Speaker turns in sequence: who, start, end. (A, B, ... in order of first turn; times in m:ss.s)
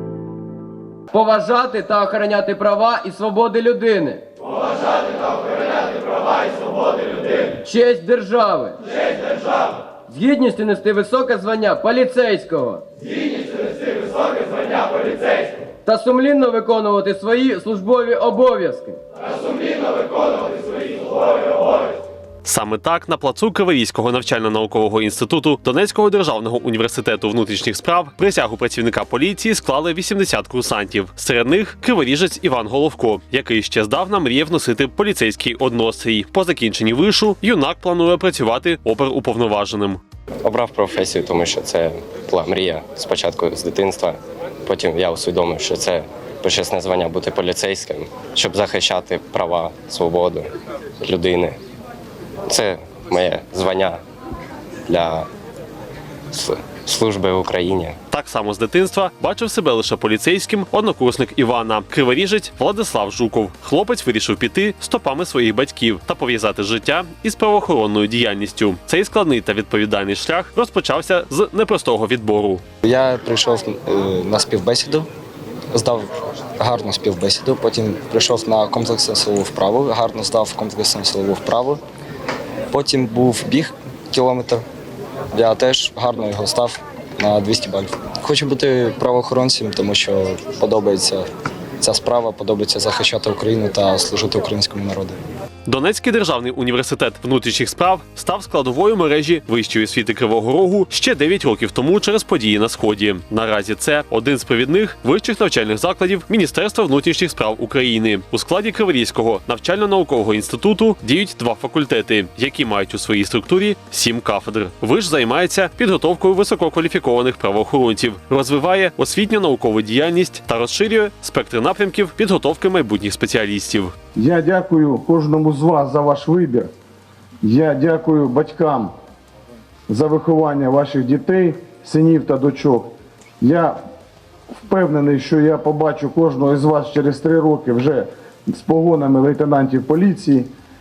0:01.1-0:04.3 A
0:07.3-0:08.8 A
0:10.1-0:12.8 A
0:15.8-0:19.0 A
0:22.4-0:40.0 B
0:40.4-0:50.5 C
0:51.0-0:51.6 C
0:52.5-0:54.0 C
0:54.9-0:55.3 C
0:56.3-0:58.0 C
0:58.1-1:12.6 B
1:12.8-1:15.1 D
1:15.7-1:21.8 D
1:22.7-1:24.6 D
1:25.3-1:31.3 D
1:31.8-1:35.2 D
1:35.6-2:03.9 B
2:04.2-2:06.7 E
2:07.4-2:08.9 E
2:09.9-2:13.8 E
2:14.6-2:20.5 E